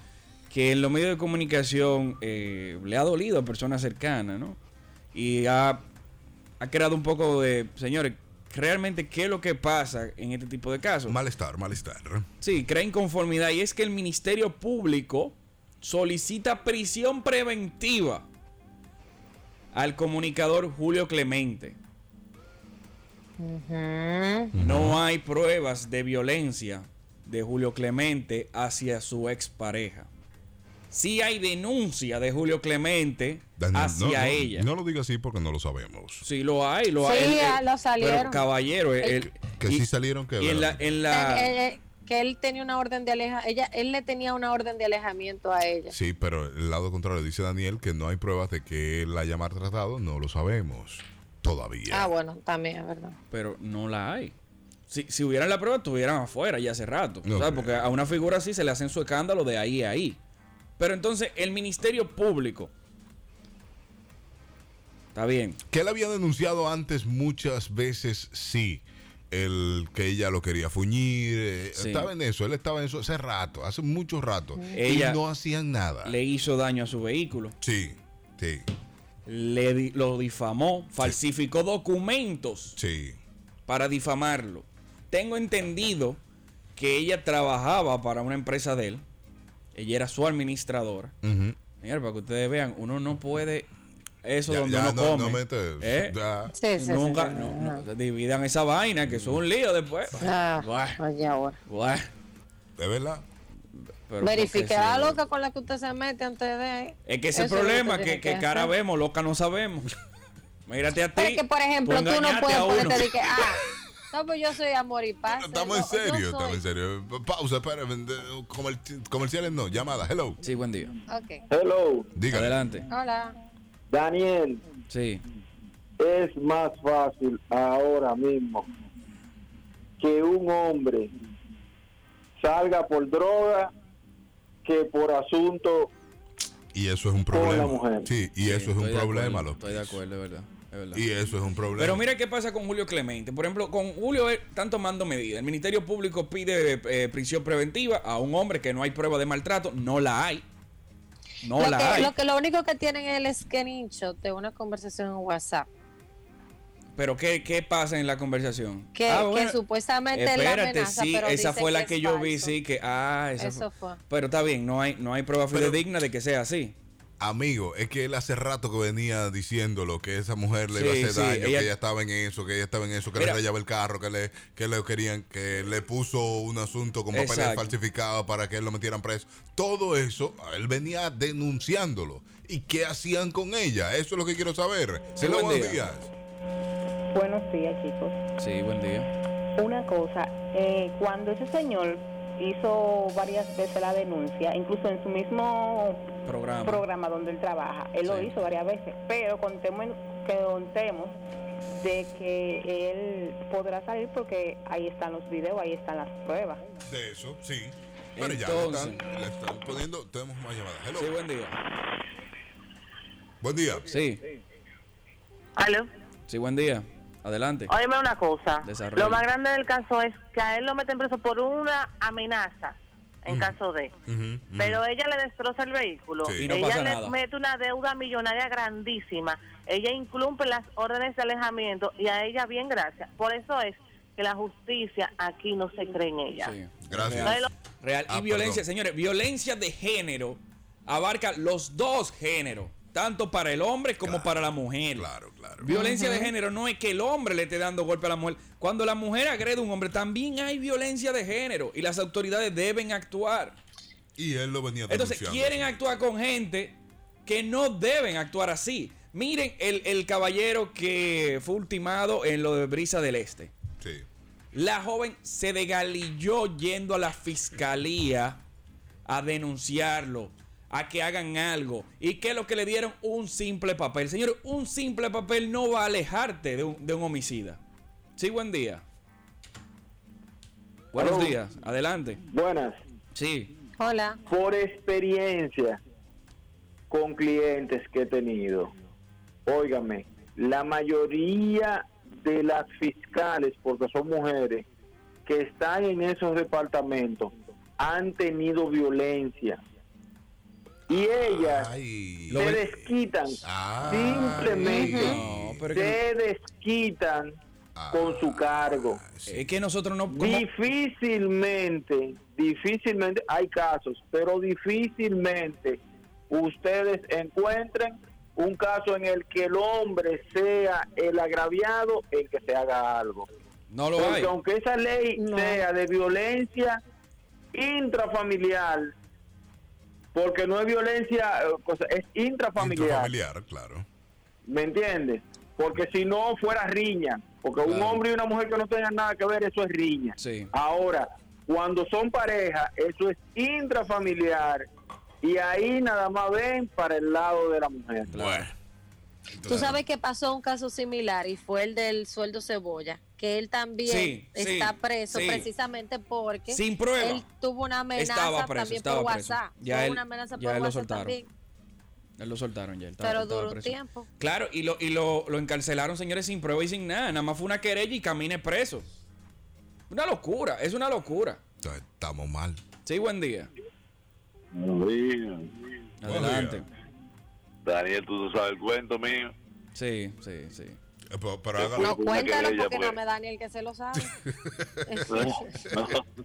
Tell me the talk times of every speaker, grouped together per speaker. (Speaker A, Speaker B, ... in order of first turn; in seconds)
Speaker A: 0.5-4.6, 5.1-5.8, 6.6-11.2, 12.4-18.3, 19.7-21.8, 24.6-30.1, 30.9-34.7, 36.2-39.9, 40.4-41.6, 53.3-54.4, 54.9-60.2, 60.8-62.7, 65.2-65.6, 71.8-72.1, 74.7-75.2, 76.0-77.6, 79.3-82.8, 83.7-86.2, 86.8-89.0, 89.8-91.1, 91.8-93.7, 94.2-96.2, 96.8-101.0, 101.7-102.1, 104.0-105.2, 107.1-109.9, 110.7-113.3, 120.4-120.9, 122.3-122.8, 124.9-125.2, 138.4-141.0, 141.8-150.4, 151.4-152.1, 157.0-159.6, 160.1-166.8, 170.7-171.7, 173.2-173.4, 177.1-177.8, 185.2-185.9, 188.4-189.1, 196.3-196.9, 198.0-198.3, 208.2-209.0, 210.9-211.6, 213.9-214.2, 216.3-217.7, 218.6-219.2, 226.4-227.2, 236.4-253.6, 254.9-263.5, 264.5-268.4, 269.1-277.6, 278.2-278.8, 280.9-282.2, 283.1-283.5, 302.3-302.6, 303.9-306.0, 309.3-310.5, 323.7-324.3, 337.6-338.0, 340.2-340.5, 348.1-348.5, 349.4-349.8, 353.8-355.5, 356.5-357.2, 357.9-361.2, 362.2-368.9, 369.9-371.4, 372.9-373.5, 376.0-376.7, 379.8-380.8
Speaker B: 11.1-12.3, 24.5-25.0, 33.6-36.2, 39.4-40.9, 45.9-52.1, 57.2-57.9, 65.7-76.2, 77.6-78.7, 82.8-83.2, 91.2-91.6, 94.5-96.5, 102.8-103.2, 115.3-120.4, 122.2-122.6, 136.7-140.0, 140.9-142.0, 165.5-165.8, 167.2-186.1, 206.9-211.2, 213.4-213.9, 223.3-223.6, 224.1-224.8, 226.2-226.5, 236.8-237.5, 238.1-238.7, 244.0-245.7, 254.2-255.8, 263.8-264.1, 301.2-302.9, 303.4-305.8, 307.8-309.5, 332.6-333.9, 348.1-348.5, 349.4-349.8, 371.6-372.6, 376.1-376.6, 381.1-381.9, 384.0-385.2
Speaker C: 23.4-24.5, 37.0-38.5, 41.1-46.0, 51.9-53.1, 96.5-97.8, 100.2-101.6, 104.2-108.7, 111.2-116.6, 121.1-121.4, 122.9-123.4, 151.6-155.7, 158.9-162.6, 163.4-164.0, 245.7-246.3, 283.8-284.2, 304.6-305.1, 325.2-325.7, 349.5-361.3, 363.0-364.1, 381.8-384.1, 384.9-385.6
Speaker D: 121.5-122.1, 123.9-124.6, 126.0-128.7, 130.0-131.1, 132.4-133.7, 134.6-135.9, 137.3-138.1, 281.0-281.4, 282.3-282.8, 284.3-285.8, 286.9-288.7, 289.5-294.6, 295.3-299.6, 300.9-301.7, 302.3-305.2, 305.7-307.4, 307.9-309.0, 310.1-323.3, 324.0-326.8, 327.5-328.9, 330.1-333.1, 334.5-344.7, 345.2-348.2
Speaker E: 187.1-188.2, 189.6-196.0, 196.6-201.2, 201.8-206.6
Speaker F: 215.6-215.9, 217.7-223.9, 224.6-236.6, 237.2-237.5
Speaker G: 374.5-375.4, 377.6-379.3, 381.6-383.0, 385.1-386.0